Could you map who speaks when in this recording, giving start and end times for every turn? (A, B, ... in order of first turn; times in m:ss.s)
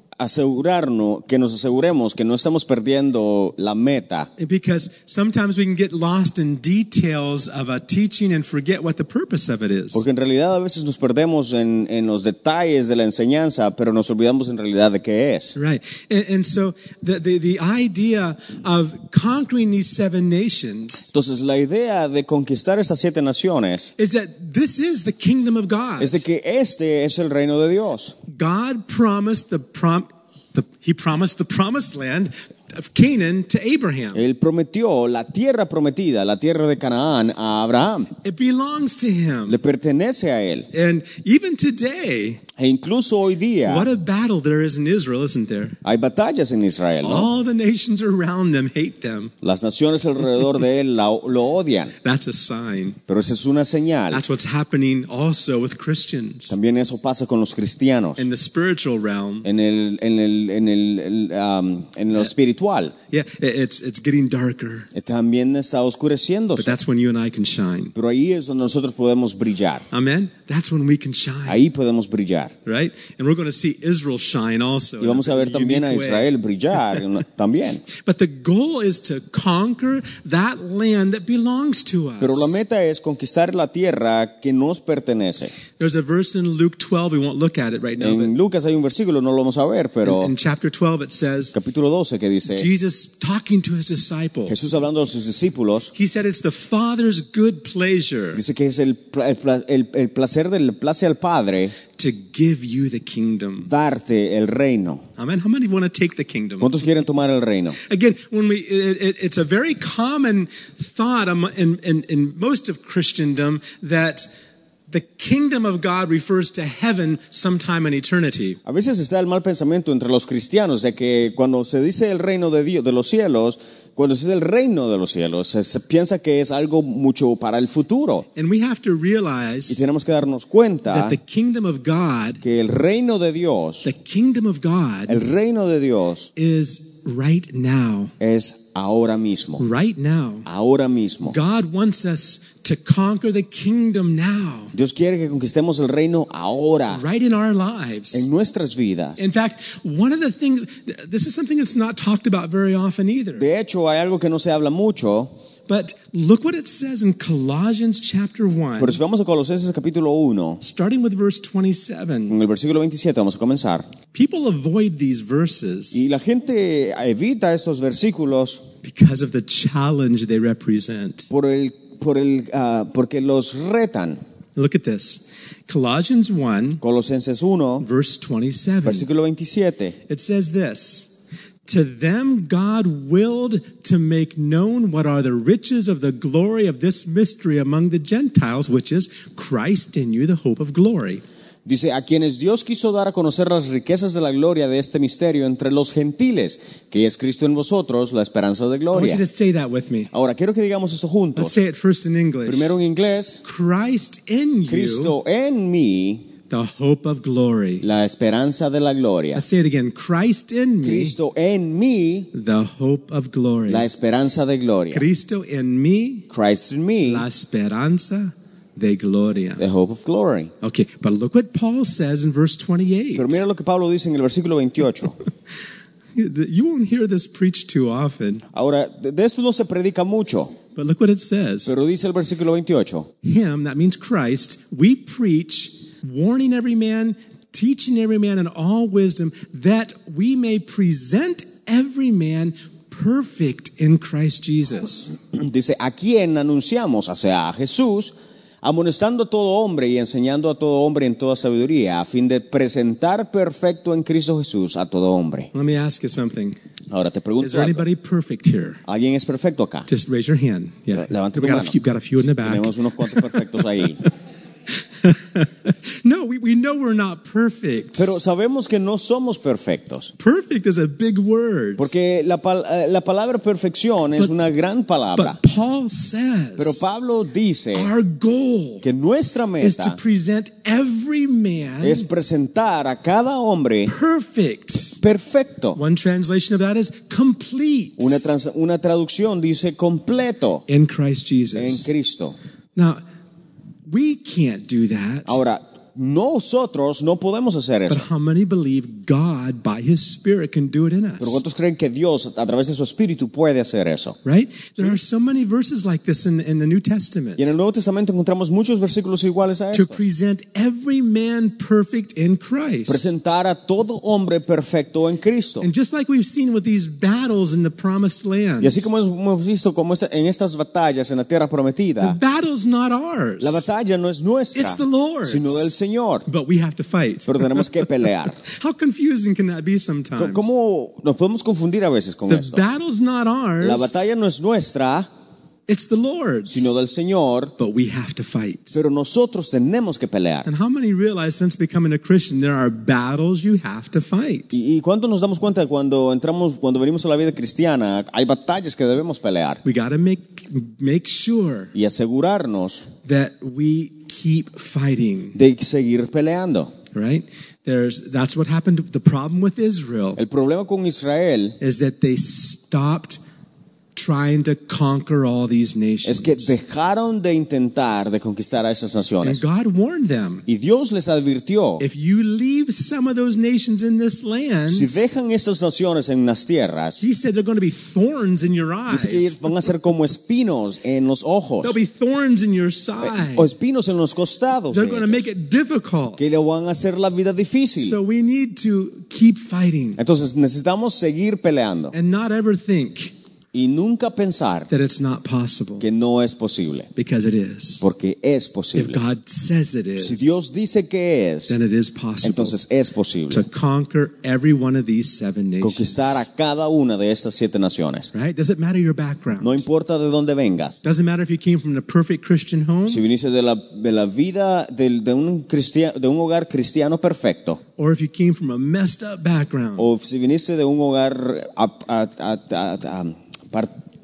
0:00.2-0:04.3 A
0:04.4-0:10.0 B
0:09.9-0:15.6 A
0:15.6-0:21.1 B
0:21.1-0:23.9 A
0:24.0-0:26.2 B
0:26.0-0:28.2 A
0:28.3-0:34.2 B
0:34.1-0:38.1 A
0:38.2-0:39.6 B
0:39.5-0:40.7 A
0:40.7-0:42.4 B
0:42.6-0:43.9 A
0:43.7-0:45.8 B
0:45.8-0:47.3 A
0:47.0-0:49.3 B
0:49.4-0:51.9 A
0:52.0-0:53.0 B
0:53.1-0:54.2 A
0:54.1-0:56.6 B
0:56.5-0:58.3 A
0:58.2-0:59.5 B
0:59.4-1:02.9 A
1:03.1-1:04.9 B
1:04.9-1:06.8 A
1:06.6-1:08.0 B
1:08.0-1:09.9 A
1:09.9-1:11.6 B
1:11.5-1:12.6 A
1:12.7-1:16.3 B
1:15.0-1:17.8 A
1:17.9-1:22.6 B
1:22.2-1:25.5 A
1:25.8-1:28.3 B
1:28.0-1:30.3 A
1:30.0-1:31.6 B
1:31.5-1:32.7 A
1:32.5-1:34.8 B
1:34.5-1:35.9 A
1:35.9-1:38.4 B
1:38.3-1:41.8 A
1:42.0-1:43.7 B
1:43.7-1:45.0 A
1:45.2-1:46.8 B
1:46.6-1:47.8 A
1:47.8-1:54.3 B
1:54.9-1:58.6 B
1:58.7-2:08.3 A
2:08.4-2:09.8 B
2:09.7-2:11.2 A
2:10.9-2:12.4 B
2:12.4-2:13.9 A
2:13.8-2:15.2 B
2:15.1-2:16.3 A
2:16.4-2:18.1 B
2:18.2-2:19.6 A
2:19.6-2:20.5 B
2:20.4-2:21.4 A
2:21.3-2:24.8 B
2:24.7-2:27.0 A
2:26.9-2:28.3 B
2:28.1-2:29.2 A
2:29.2-2:33.5 B
2:33.4-2:35.3 A
2:35.7-2:39.0 B
2:38.8-2:40.6 A
2:40.6-2:42.4 B
2:42.3-2:43.8 A
2:44.1-2:46.1 B
2:45.9-2:48.6 A
2:48.8-2:51.3 B
2:51.3-2:54.2 A
2:54.6-2:56.8 B
2:56.8-2:57.9 A
2:57.8-2:59.1 B
2:58.8-3:00.0 A
3:00.1-3:01.1 B
3:01.7-3:11.2 B
3:11.7-3:19.2 A
3:18.9-3:20.1 B
3:20.1-3:21.6 A
3:21.4-3:22.8 B
3:22.5-3:23.4 A
3:23.4-3:25.2 B
3:24.7-3:26.3 A
3:26.5-3:27.9 B
3:27.8-3:29.4 A
3:29.4-3:31.2 B
3:30.8-3:32.3 A
3:32.3-3:33.9 B
3:33.7-3:35.1 A
3:34.9-3:36.3 B
3:36.3-3:37.3 A
3:37.1-3:39.7 B
3:39.6-3:40.5 A
3:40.6-3:43.4 B
3:43.2-3:45.2 A
3:46.2-3:48.4 B
3:48.5-3:50.6 A
3:50.8-3:51.8 B
3:51.7-3:53.1 A
3:53.2-4:05.1 B
4:05.3-4:15.5 A
4:15.5-4:16.6 B
4:16.9-4:17.8 A
4:17.4-4:18.8 B
4:18.8-4:19.9 A
4:19.9-4:23.4 B
4:21.0-4:21.8 A
4:22.4-4:24.0 A
4:25.0-4:28.1 B
4:28.0-4:30.1 A
4:30.2-4:31.9 B
4:31.8-4:35.4 A
4:35.2-4:36.8 B
4:36.6-4:37.9 A
4:37.7-4:38.8 B
4:38.8-4:40.0 A
4:39.6-4:42.1 B
4:41.8-4:43.9 A
4:43.9-4:45.0 B
4:45.0-4:45.8 A
4:45.8-4:48.3 B
4:48.0-4:50.6 A
4:50.7-4:51.9 B
4:51.6-4:52.4 A
4:52.8-4:53.0 B
4:53.9-4:55.4 B
4:55.3-4:58.1 A
4:57.9-5:01.4 B
5:01.2-5:04.2 A
5:04.2-5:07.5 B
5:07.4-5:10.0 A
5:09.7-5:13.1 B
5:12.9-5:15.7 A
5:15.6-5:18.9 B
5:18.6-5:22.2 A
5:22.0-5:23.7 B
5:23.4-5:26.3 A
5:24.6-5:25.7 B
5:26.3-5:27.9 B
5:27.3-5:28.4 A
5:28.4-5:30.5 B
5:30.2-5:32.6 A
5:32.3-5:34.0 B
5:33.6-5:35.1 A
5:35.7-5:36.7 B
5:36.5-5:37.5 A
5:37.6-5:38.8 B
5:38.7-5:40.5 A
5:40.4-5:44.6 B
5:44.5-5:49.6 A
5:49.6-5:51.7 B
5:51.7-5:52.9 A
5:53.1-5:55.4 B
5:55.4-5:56.7 A
5:56.9-6:00.2 B
6:00.2-6:01.6 A
6:01.6-6:03.2 B
6:04.0-6:06.6 B
6:06.0-6:09.4 A
6:09.2-6:10.4 B
6:10.5-6:11.8 A
6:11.8-6:15.1 B
6:14.7-6:17.0 A
6:17.0-6:19.7 B
6:18.9-6:21.8 A
6:21.6-6:23.5 B
6:23.0-6:25.3 A
6:24.7-6:26.4 B
6:26.2-6:28.0 A
6:27.8-6:30.0 B
6:30.0-6:32.0 A
6:31.9-6:33.1 B
6:33.5-6:34.7 A
6:34.7-6:35.9 B
6:35.8-6:36.9 A
6:37.0-6:37.8 B
6:37.8-6:39.0 A
6:38.8-6:40.4 B
6:40.0-6:41.6 A
6:41.5-6:42.6 B
6:42.2-6:43.5 A
6:43.3-6:46.2 B
6:45.6-6:48.1 A
6:48.1-6:49.6 B
6:49.4-6:50.8 A
6:50.8-6:53.0 B
6:52.9-6:57.6 A
6:57.8-6:59.9 B
6:59.8-7:03.7 A